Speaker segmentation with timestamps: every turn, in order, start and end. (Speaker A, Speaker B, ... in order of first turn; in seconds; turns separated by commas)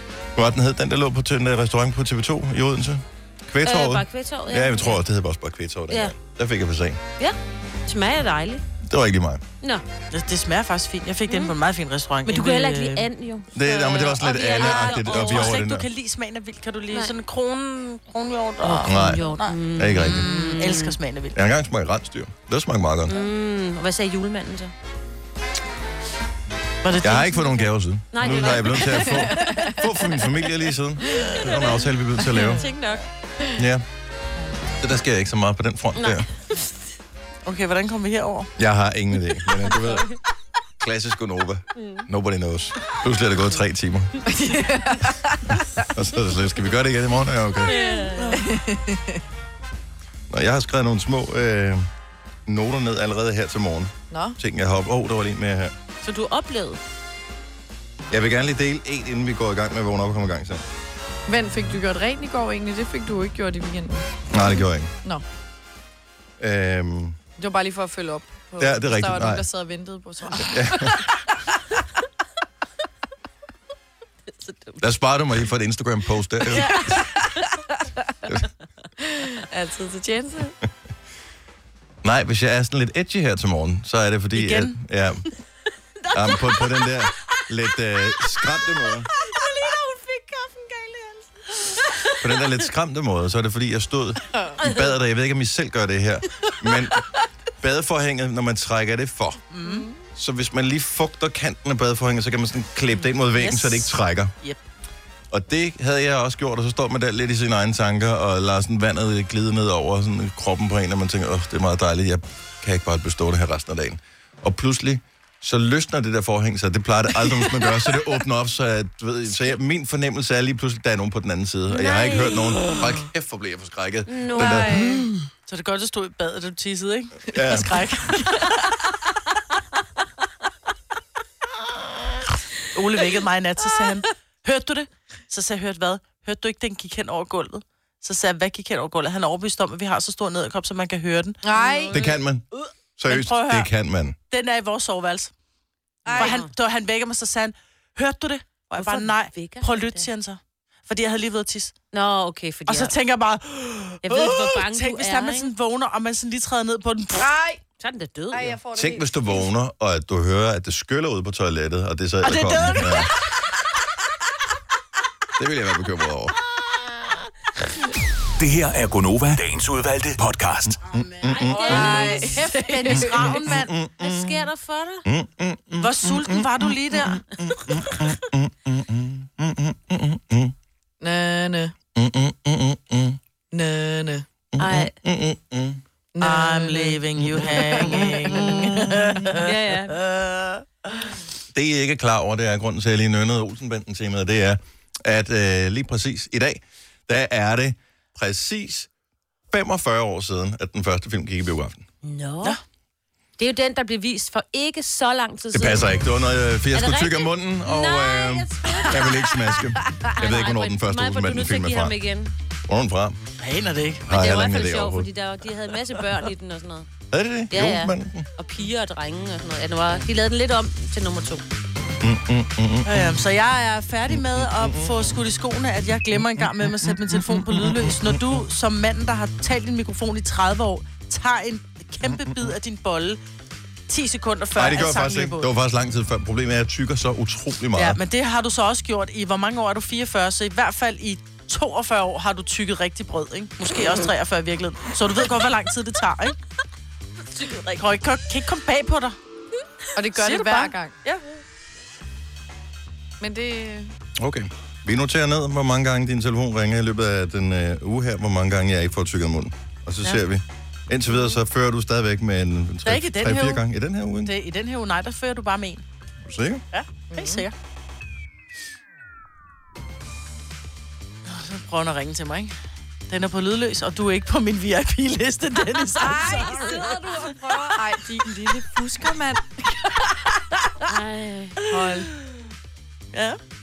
Speaker A: 0.4-7.0, Speaker B: 3.6-5.0, Speaker B: 5.9-6.1, Speaker B: 7.2-8.7, Speaker A: 8.8-9.4, Speaker C: 10.1-13.1, Speaker B: 11.3-11.5, Speaker B: 12.2-15.6, Speaker A: 13.5-15.9, Speaker C: 14.5-21.4, Speaker B: 18.6-21.0, Speaker A: 18.9-19.2, Speaker A: 19.8-20.3, Speaker A: 21.3-23.2, Speaker B: 23.1-24.7, Speaker C: 26.8-27.7, Speaker A: 27.0-32.6, Speaker B: 28.1-29.7, Speaker D: 29.1-29.8, Speaker B: 31.4-33.0, Speaker A: 33.6-33.9, Speaker A: 34.8-36.3, Speaker B: 36.0-36.7, Speaker C: 37.4-38.5, Speaker A: 38.6-40.1, Speaker B: 39.6-40.2, Speaker A: 40.8-44.2, Speaker B: 41.8-42.1, Speaker D: 44.3-45.6, Speaker A: 45.9-47.7, Speaker B: 47.6-48.5, Speaker C: 47.8-48.5, Speaker D: 48.4-49.2, Speaker A: 50.3-51.9, Speaker A: 52.5-55.7, Speaker D: 54.1-54.4, Speaker B: 56.0-56.8, Speaker A: 58.1-60.6, Speaker D: 61.3-64.1, Speaker A: 64.3-64.9, Speaker A: 66.4-67.2, Speaker D: 67.4-71.2, Speaker A: 68.6-69.4, Speaker A: 70.4-71.0, Speaker B: 74.4-74.8, Speaker A: 74.8-76.8, Speaker C: 76.5-77.0, Speaker D: 79.0-80.5, Speaker A: 82.0-85.2, Speaker C: 84.3-84.8, Speaker A: 86.1-89.1, Speaker D: 89.7-91.0, Speaker A: 92.2-97.0, Speaker B: 94.6-94.9, Speaker A: 97.6-99.4, Speaker C: 99.5-99.9, Speaker D: 99.6-99.9, Speaker A: 100.2-104.3, Speaker C: 103.2-104.6, Speaker A: 105.3-125.1, Speaker B: 121.7-122.8, Speaker B: 124.1-125.0, Speaker D: 124.8-125.1, Speaker C: 125.5-128.5, Speaker A: 127.3-127.7, Speaker C: 132.7-141.4, Speaker D: 141.4-141.9, Speaker B: 141.6-142.2, Speaker A: 141.9-142.5, Speaker A: 143.0-144.2, Speaker C: 143.1-143.7, Speaker C: 144.3-145.3, Speaker D: 146.1-146.4, Speaker C: 146.1-151.8, Speaker B: 146.1-146.5, Speaker B: 148.8-150.1, Speaker B: 151.9-152.9, Speaker C: 152.7-157.3, Speaker B: 154.0-155.5, Speaker D: 157.2-157.6, Speaker B: 157.8-158.6, Speaker D: 158.3-159.4, Speaker A: 158.7-163.1, Speaker C: 162.2-163.2, Speaker A: 165.4-166.4, Speaker E: 168.4-170.8, Speaker C: 170.9-173.7, Speaker A: 170.9-172.0, Speaker B: 171.3-172.4, Speaker D: 171.7-173.1, Speaker A: 173.0-174.5, Speaker B: 174.0-175.1, Speaker A: 175.1-180.5, Speaker C: 175.8-177.2, Speaker D: 181.0-181.8, Speaker A: 181.9-183.2, Speaker D: 183.5-184.2, Speaker A: 184.5-185.8, Speaker B: 184.6-184.9, Speaker D: 186.1-187.0, Speaker C: 186.2-191.1, Speaker D: 188.0-188.8, Speaker B: 189.3-190.0, Speaker A: 191.5-198.9, Speaker A: 199.5-201.8, Speaker B: 202.0-202.6, Speaker B: 203.4-206.0, Speaker A: 205.5-211.9, Speaker B: 206.7-209.3, Speaker B: 210.1-212.3, Speaker A: 212.7-213.2, Speaker C: 213.4-214.1, Speaker A: 214.1-215.1, Speaker B: 214.1-216.9, Speaker A: 217.1-218.3, Speaker B: 217.5-221.4, Speaker A: 222.0-223.2, Speaker C: 222.8-233.2, Speaker A: 224.1-225.1, Speaker A: 226.2-228.4, Speaker A: 232.0-232.5, Speaker C: 233.9-235.5, Speaker A: 234.6-238.0, Speaker C: 237.7-246.4, Speaker C: 247.4-249.2, Speaker D: 249.9-250.9, Speaker C: 250.2-251.2, Speaker D: 253.2-253.9, Speaker A: 254.2-264.3, Speaker B: 261.1-261.4, Speaker C: 262.9-263.6, Speaker C: 264.2-265.9, Speaker A: 266.3-266.6, Speaker C: 266.7-267.5, Speaker D: 267.1-267.5, Speaker C: 271.3-272.6, Speaker C: 273.1-277.3, Speaker D: 276.0-280.3, Speaker B: 280.9-281.6, Speaker D: 281.7-282.1, Speaker C: 281.7-282.0, Speaker C: 283.1-283.4